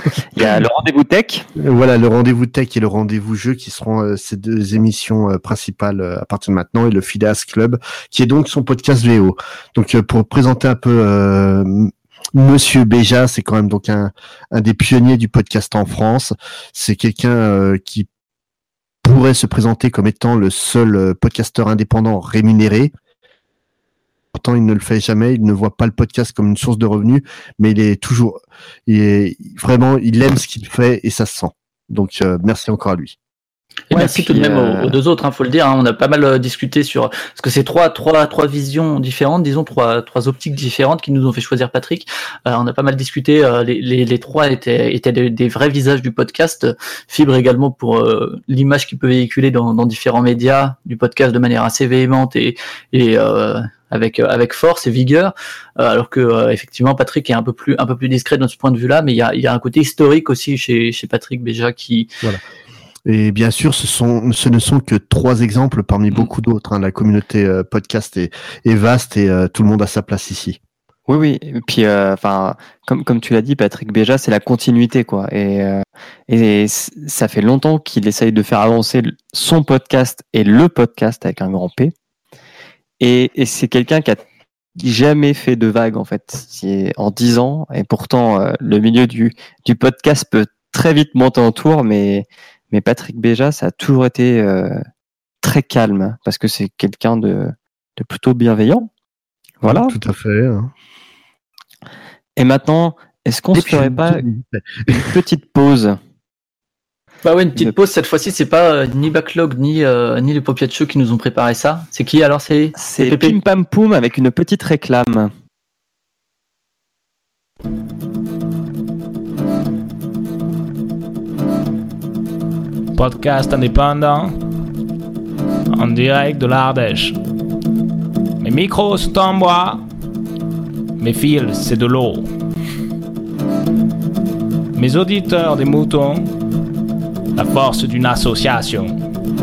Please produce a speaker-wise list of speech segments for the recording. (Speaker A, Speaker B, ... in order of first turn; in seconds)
Speaker A: 0.3-1.5, 33.9-35.0, 71.1-81.9, 83.0-84.2, 84.8-94.8, 95.4-98.9, 99.6-99.9, 102.4-104.2, 104.9-106.0, 112.8-115.3
Speaker B: 1.6-18.1, 19.0-22.9, 24.3-33.1, 63.1-70.6, 99.6-100.7, 103.5-104.4
Speaker C: 33.9-62.1, 107.2-113.4
Speaker D: 123.0-124.3, 125.7-127.1, 128.4-129.8, 131.0-132.3, 134.8-136.3, 137.3-139.0